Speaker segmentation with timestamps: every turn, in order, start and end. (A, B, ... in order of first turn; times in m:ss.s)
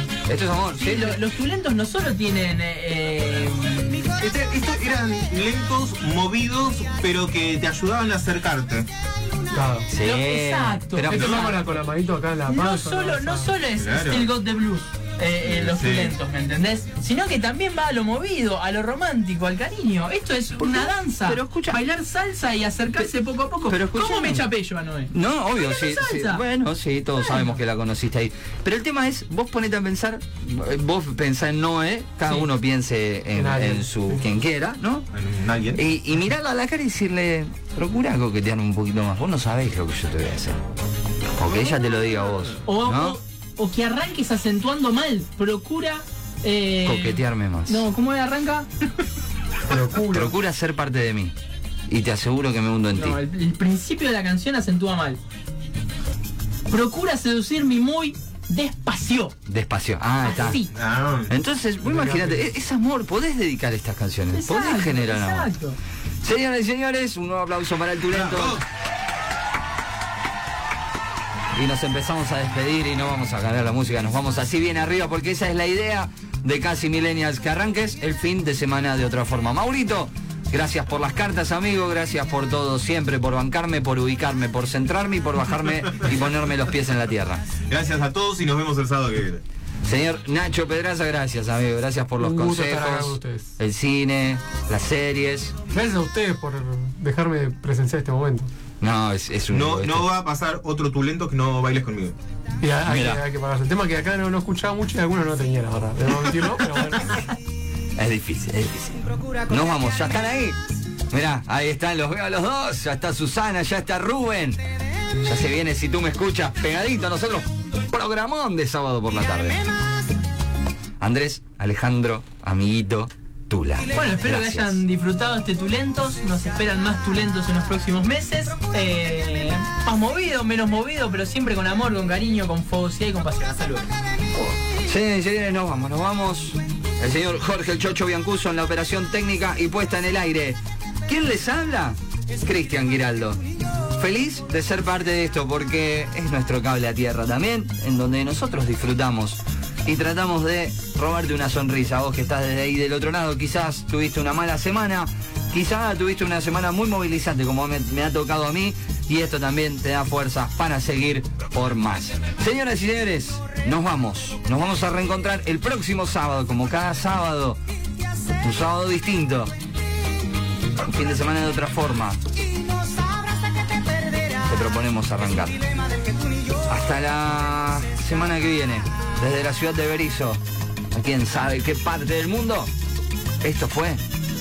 0:00.3-0:01.2 A
0:00.8-0:04.1 B
0:04.2-0:08.9 C
0:09.5-0:09.9 D
0:09.9-0:11.6 A
0:10.0-0:11.6 B
0:11.0-0:13.5 D
0:12.5-0:26.4 B
0:13.8-0:14.3 C
0:15.4-0:16.2 C
0:20.6-0:21.8 A
0:23.7-0:24.5 A
0:25.1-0:35.1 A
0:27.2-0:27.6 B
0:33.3-0:34.2 D
0:35.1-0:35.8 C
0:35.8-0:40.6 A
0:41.4-0:43.2 A
0:42.6-0:48.7 B
0:46.8-0:47.8 A
0:49.6-0:50.4 D
0:50.1-0:51.3 A
0:51.9-0:53.2 A
0:52.9-0:55.2 B
0:56.7-0:59.3 B
0:59.5-1:00.6 A
1:00.2-1:00.7 B
1:00.7-1:01.3 C
1:01.3-1:05.5 A
1:01.8-1:02.5 D
1:04.3-1:05.8 B
1:06.2-1:08.6 A
1:08.1-1:08.6 C
1:11.5-1:27.4 A
1:27.6-1:29.4 C
1:29.8-1:35.5 A
1:32.2-1:33.5 D
1:35.7-1:38.5 D
1:38.8-1:40.1 A
1:39.5-1:42.2 C
1:42.6-1:47.1 D
1:42.8-1:43.2 A
1:48.0-1:50.6 A
1:51.1-1:54.6 A
1:55.2-1:59.7 A
2:01.0-2:04.8 A
2:03.9-2:13.9 B
2:14.4-2:23.4 A
2:23.9-2:47.6 A
2:48.4-2:49.5 A
2:50.8-2:52.2 A
2:54.4-2:55.6 A
2:56.7-3:00.4 A
3:00.9-3:02.7 A
3:03.4-3:04.0 A